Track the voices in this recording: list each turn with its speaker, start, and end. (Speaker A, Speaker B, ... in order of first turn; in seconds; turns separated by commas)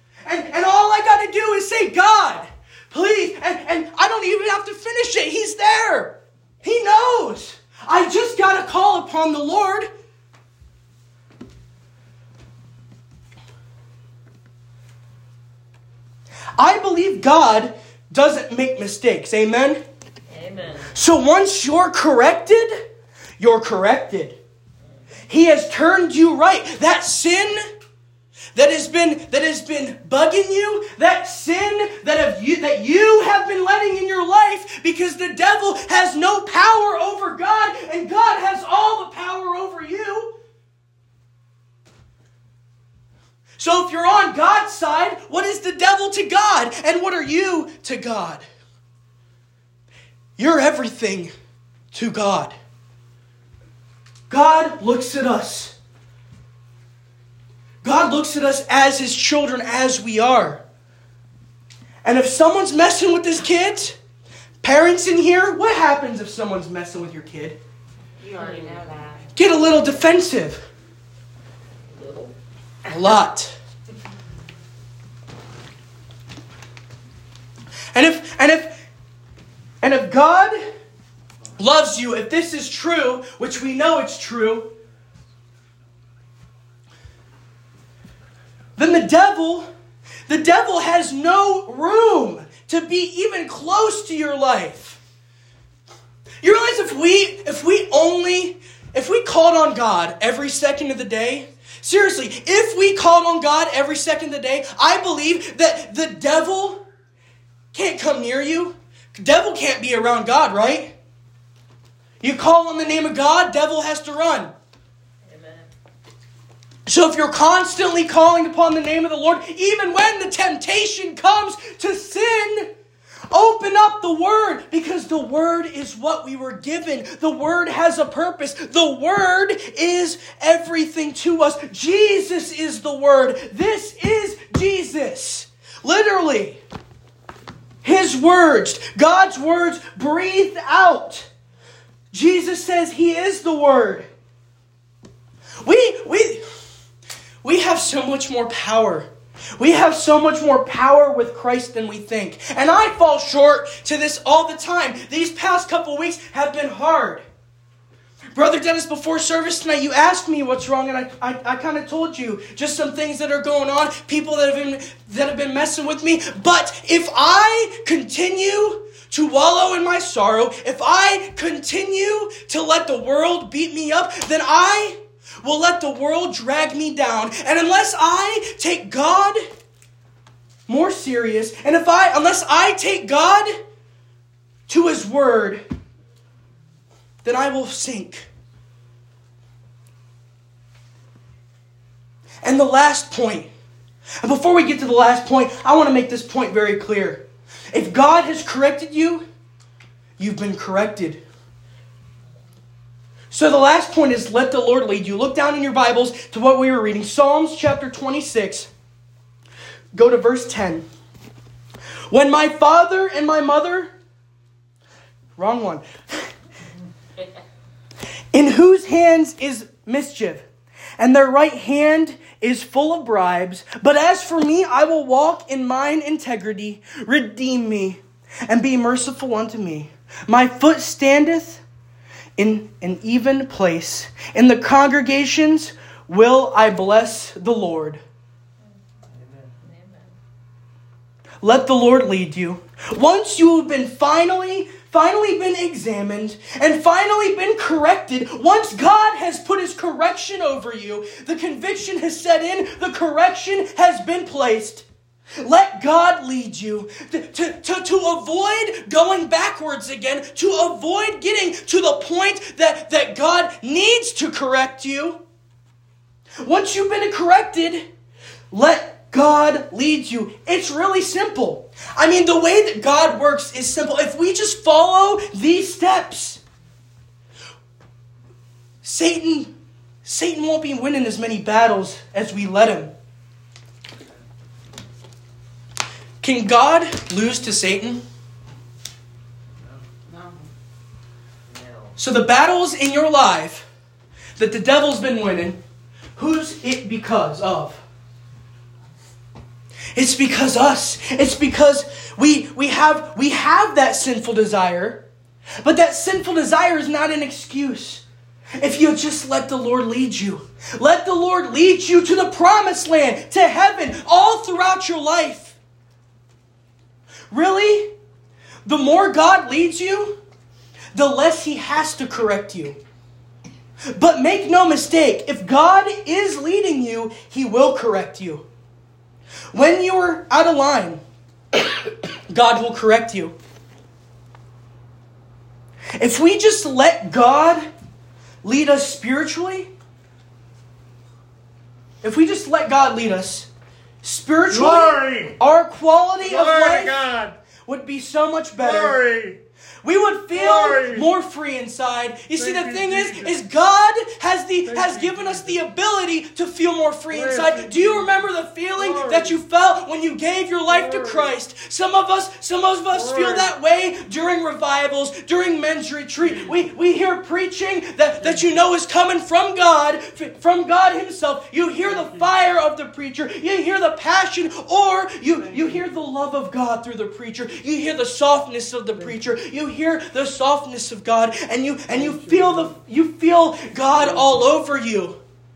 Speaker A: 0.2-9.9, Speaker A: 16.6-19.8, Speaker B: 20.3-20.9, Speaker A: 20.9-22.8, Speaker A: 23.4-24.4, Speaker A: 25.3-27.6, Speaker A: 28.5-40.3, Speaker A: 43.6-48.4, Speaker A: 50.4-51.3, Speaker A: 51.9-52.5, Speaker A: 54.3-55.8, Speaker A: 57.8-60.6, Speaker A: 62.0-64.0, Speaker A: 64.6-67.6, Speaker B: 68.2-69.3, Speaker A: 69.3-70.6, Speaker B: 71.9-72.3, Speaker A: 72.8-73.5, Speaker A: 77.9-78.8, Speaker A: 79.8-80.6, Speaker A: 81.6-84.7, Speaker A: 88.8-89.7, Speaker A: 90.3-95.0, Speaker A: 96.4-106.8, Speaker A: 107.7-110.9, Speaker A: 112.2-114.5, Speaker B: 115.2-115.7, Speaker A: 116.9-122.7, Speaker A: 123.3-136.6, Speaker A: 137.8-141.3, Speaker A: 142.1-144.1, Speaker A: 145.6-146.4, Speaker A: 147.4-157.2, Speaker A: 158.3-179.4, Speaker A: 180.7-183.5, Speaker A: 184.7-185.6, Speaker A: 187.2-188.3, Speaker A: 192.4-193.5, Speaker A: 194.2-199.2, Speaker A: 200.2-201.2, Speaker A: 203.3-208.7, Speaker A: 209.9-210.8, Speaker A: 212.1-213.9, Speaker A: 215.3-216.3, Speaker A: 218.3-220.4, Speaker A: 221.0-231.6, Speaker A: 232.4-238.0, Speaker B: 239.6-240.1, Speaker A: 241.4-254.9, Speaker A: 255.4-265.2, Speaker A: 266.4-267.9, Speaker A: 268.5-276.4, Speaker A: 278.8-279.5, Speaker A: 280.0-282.9, Speaker A: 286.2-288.0, Speaker B: 290.1-290.4, Speaker A: 292.0-293.7, Speaker A: 294.4-295.6, Speaker A: 296.1-297.8, Speaker A: 299.9-305.0, Speaker A: 305.6-308.0, Speaker A: 308.6-315.6, Speaker A: 317.3-317.9, Speaker A: 318.6-320.2, Speaker A: 320.9-322.8, Speaker A: 323.9-328.4, Speaker A: 329.5-331.0, Speaker A: 332.3-333.4, Speaker A: 336.0-337.6, Speaker A: 338.4-339.7, Speaker A: 342.0-343.5, Speaker A: 344.0-347.1, Speaker C: 344.5-345.3, Speaker C: 346.2-347.4, Speaker A: 347.6-349.0, Speaker C: 348.6-349.4, Speaker A: 349.8-385.2, Speaker C: 350.4-351.1, Speaker C: 352.4-353.3, Speaker C: 354.7-355.6, Speaker C: 357.1-358.1, Speaker C: 358.8-359.4, Speaker C: 360.7-361.3, Speaker C: 362.9-363.5, Speaker C: 371.9-372.3, Speaker C: 375.4-375.8, Speaker C: 381.9-382.7